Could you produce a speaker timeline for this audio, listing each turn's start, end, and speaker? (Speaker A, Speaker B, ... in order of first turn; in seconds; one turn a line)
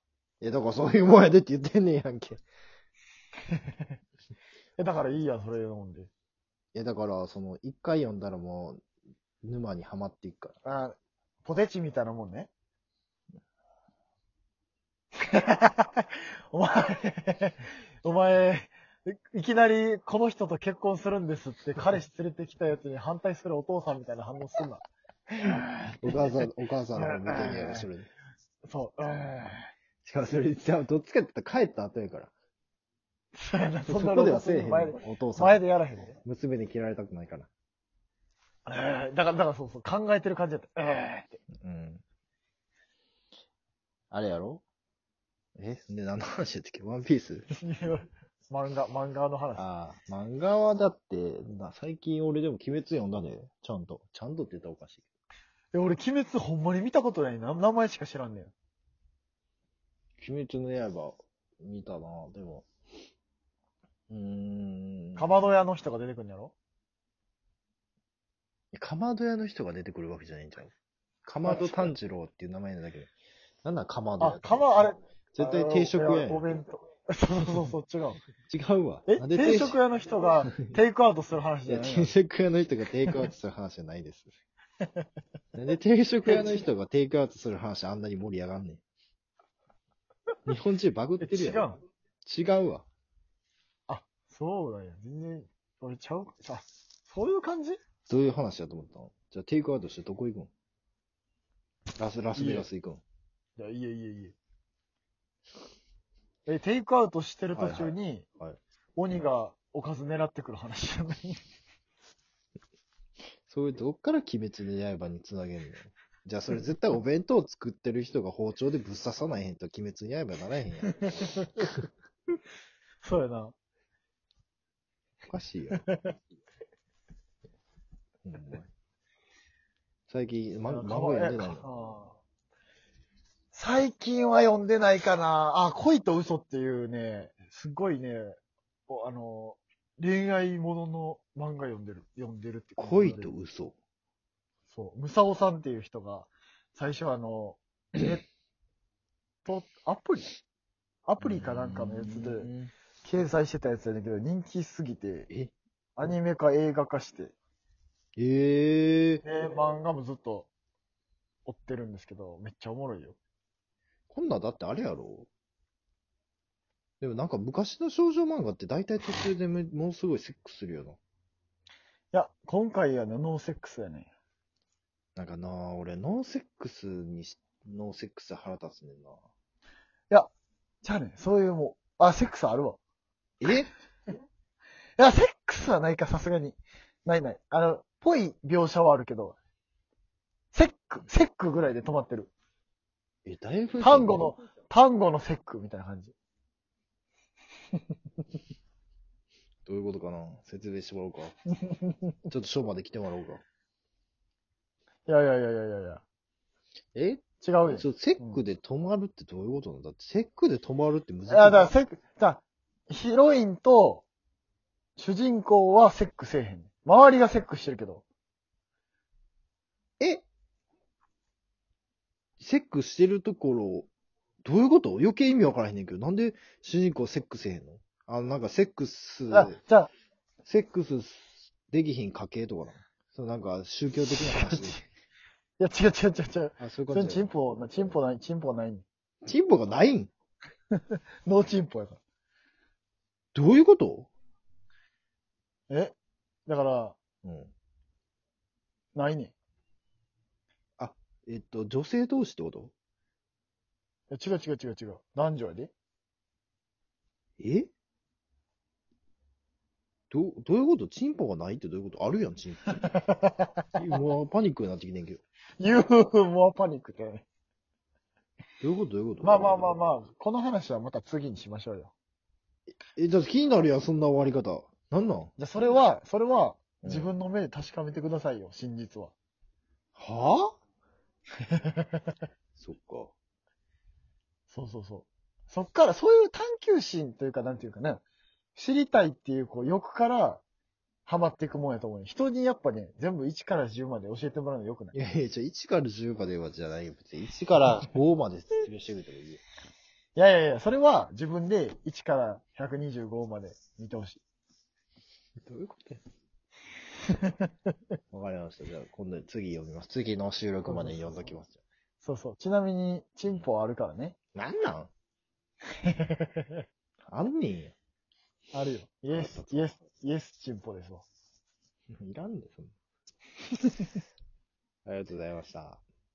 Speaker A: 0.4-2.4
Speaker B: 3.5-3.9
Speaker B: 4.8-6.1
Speaker A: 6.7-8.8
Speaker A: 9.4-10.5
Speaker B: 10.6-12.5
Speaker B: 15.2-24.8
Speaker B: 25.3-25.7
Speaker A: 26.0-28.1
Speaker B: 26.9-27.9
Speaker B: 28.6-29.7
Speaker A: 30.0-32.3
Speaker B: 33.3-36.2
Speaker A: 33.9-35.6
Speaker A: 36.2-37.5
Speaker B: 38.6-41.4
Speaker A: 41.5-42.0
Speaker A: 44.1-44.6
Speaker A: 45.5-47.5
Speaker B: 47.5-49.6
Speaker A: 49.5-55.0
Speaker B: 55.7-58.5
Speaker A: 60.2-62.7
Speaker A: 64.1-65.3
Speaker B: 65.2-66.5
Speaker A: 68.7-70.7
Speaker A: 71.2-73.1
Speaker B: 71.4-71.9
Speaker A: 73.6-76.5
Speaker B: 74.2-78.2
Speaker A: 78.4-79.8
Speaker B: 79.1-82.1
Speaker A: 81.7-84.3
Speaker A: 85.5-88.8
Speaker B: 86.2-86.5
Speaker A: 90.5-91.7
Speaker B: 91.2-91.8
Speaker A: 92.2-92.8
Speaker B: 93.9-97.8
Speaker A: 98.0-100.5
Speaker A: 102.0-103.0
Speaker B: 102.3-102.7
Speaker B: 103.6-104.3
Speaker B: 106.5-108.2
Speaker A: 107.5-108.6
Speaker B: 109.0-111.4
Speaker A: 113.5-121.7
Speaker B: 121.0-121.5
Speaker B: 123.0-123.5
Speaker A: 125.3-125.8
Speaker B: 125.7-126.1
Speaker A: 128.2-128.7
Speaker A: 130.1-131.6
Speaker B: 130.7-132.2
Speaker B: 133.5-143.3
Speaker A: 142.8-143.8
Speaker B: 144.7-148.2
Speaker B: 149.4-150.3
Speaker B: 151.1-152.5
Speaker A: 151.2-152.7
Speaker B: 153.0-155.3
Speaker B: 156.0-157.3
Speaker A: 158.2-159.2
Speaker B: 159.2-160.5
Speaker B: 161.4-163.2
Speaker A: 164.1-165.3
Speaker A: 167.0-171.0
Speaker B: 172.1-174.1
Speaker A: 175.2-179.2
Speaker B: 180.8-182.8
Speaker A: 183.4-183.7
Speaker B: 185.0-189.3
Speaker B: 190.5-192.3
Speaker A: 193.2-194.3
Speaker B: 193.8-196.1
Speaker A: 199.7-201.3
Speaker B: 201.6-202.0
Speaker A: 202.3-203.4
Speaker B: 205.1-206.0
Speaker A: 206.9-211.7
Speaker B: 207.4-208.4
Speaker B: 211.3-214.0
Speaker B: 215.0-218.0
Speaker A: 220.0-220.2
Speaker A: 222.4-223.9
Speaker A: 224.4-229.6
Speaker B: 229.3-229.9
Speaker A: 230.4-234.8
Speaker B: 234.0-234.8
Speaker B: 235.6-238.8
Speaker A: 236.6-237.3
Speaker A: 239.2-240.1
Speaker B: 240.7-242.0
Speaker A: 243.3-244.1
Speaker B: 245.7-245.9
Speaker B: 246.5-247.0
Speaker A: 247.2-247.5
Speaker B: 248.9-249.3
Speaker A: 250.8-252.7
Speaker B: 254.1-255.7
Speaker A: 257.4-257.7
Speaker A: 260.1-262.9
Speaker B: 262.9-263.5
Speaker A: 263.8-265.2
Speaker B: 265.6-267.2
Speaker A: 268.6-269.7
Speaker B: 269.2-271.9
Speaker A: 272.9-275.3
Speaker B: 275.4-279.1
Speaker A: 276.8-277.1
Speaker A: 279.9-280.6
Speaker B: 281.5-282.1
Speaker A: 282.6-283.1
Speaker B: 284.5-288.0
Speaker B: 288.5-290.4
Speaker B: 291.1-294.9
Speaker A: 294.9-299.4
Speaker B: 300.1-304.2
Speaker A: 305.4-306.0
Speaker B: 307.1-307.5
Speaker A: 308.1-311.6
Speaker B: 310.7-311.0
Speaker B: 312.0-314.1
Speaker A: 314.3-314.9
Speaker B: 315.8-316.6
Speaker A: 317.1-317.7
Speaker B: 318.5-321.1
Speaker A: 319.1-319.6
Speaker A: 321.9-322.7
Speaker A: 324.9-325.8